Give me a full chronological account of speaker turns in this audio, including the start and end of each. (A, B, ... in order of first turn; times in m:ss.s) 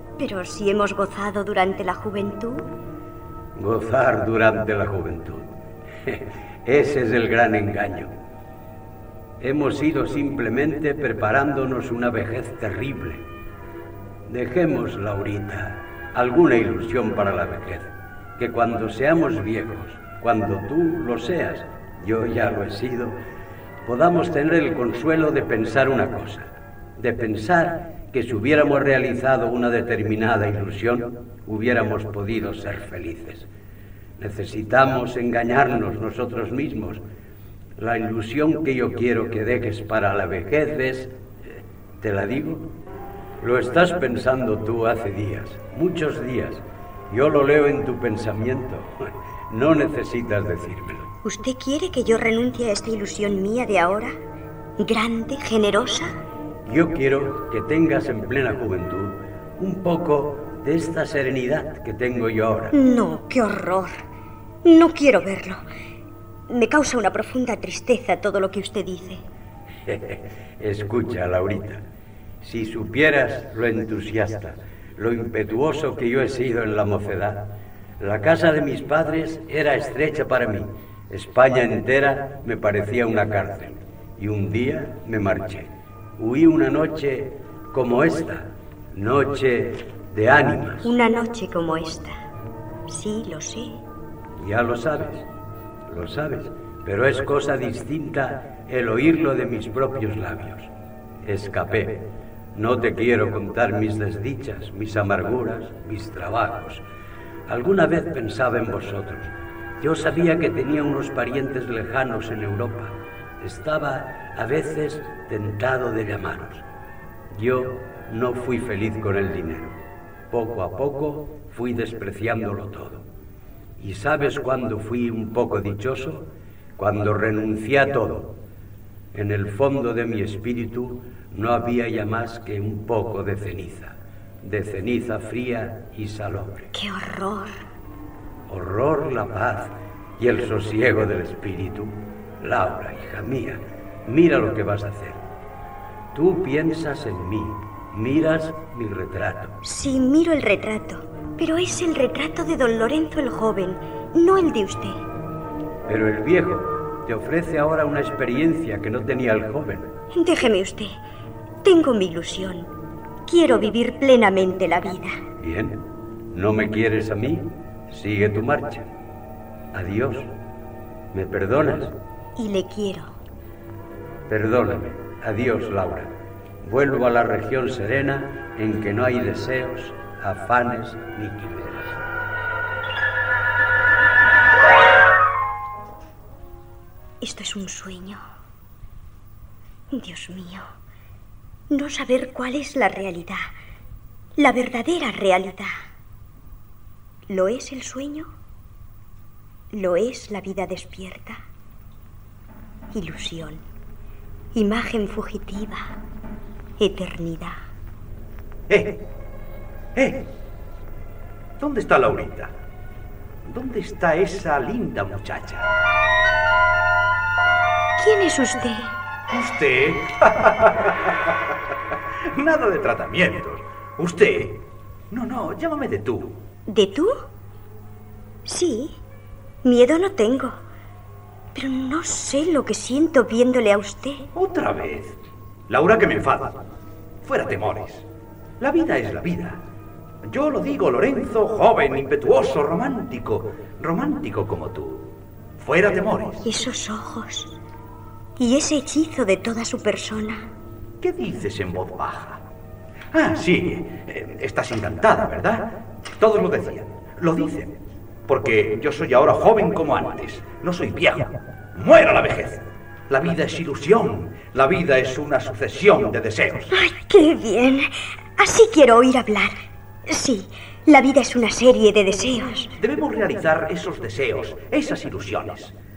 0:00.2-0:02.7 A
0:03.6-0:05.5 B
0:06.1-0:08.1 B
0:09.4-0:13.2 B
0:14.3-0:23.2 B
0:23.8-0:33.5 B
0:34.2-0:37.0 B
0:37.8-0:42.7 B
0:43.4-0:51.1 B
0:51.2-0:54.1 A
0:54.8-0:56.1 A
0:56.7-1:02.7 B
1:02.7-1:04.0 A
1:04.6-1:05.6 A
1:06.5-1:09.2 A
1:09.9-1:11.8 B
1:12.4-1:30.9 B
1:30.8-1:32.1 A
1:32.9-1:33.8 A
1:34.4-1:35.2 B
1:35.9-1:40.7 B
1:41.2-1:46.8 B
1:47.5-1:56.6 B
1:57.3-1:59.8 B
2:00.3-2:03.0 B
2:03.8-2:08.4 B
2:09.1-2:16.7 B
2:16.7-2:17.6 A
2:18.5-2:25.2 B
2:26.1-2:29.6 B
2:29.6-2:35.0 A
2:35.9-2:39.9 B
2:40.1-2:41.0 A
2:41.6-2:42.7 A
2:43.3-2:45.2 A
2:45.4-2:48.9 B
2:49.7-2:50.3 B
2:51.1-2:51.9 B
2:52.4-2:53.1 A
2:54.3-3:02.0 B
3:07.2-3:08.2 A
3:09.9-3:10.7 A
3:11.7-3:13.5 A
3:14.4-3:15.7 A
3:17.3-3:18.3 A
3:19.7-3:21.4 A
3:22.9-3:23.6 A
3:24.5-3:25.9 A
3:26.8-3:27.6 A
3:28.7-3:29.0 C
3:30.0-3:30.3 C
3:31.6-3:32.5 C
3:33.5-3:35.7 C
3:38.0-3:38.9 A
3:39.3-3:41.1 C
3:42.3-3:46.4 C
3:46.7-3:47.2 A
3:48.5-3:49.0 A
3:49.6-3:50.6 A
3:51.5-3:54.3 A
3:54.3-3:55.2 C
3:55.7-3:56.6 C
3:57.2-3:58.1 C
3:58.6-3:59.6 C
4:00.3-4:06.4 C
4:06.4-4:07.5 A
4:08.4-4:10.5 A
4:11.0-4:12.4 C
4:13.1-4:26.8 C
4:26.7-4:29.6 A
4:30.1-4:32.7 A
4:32.8-4:35.7 C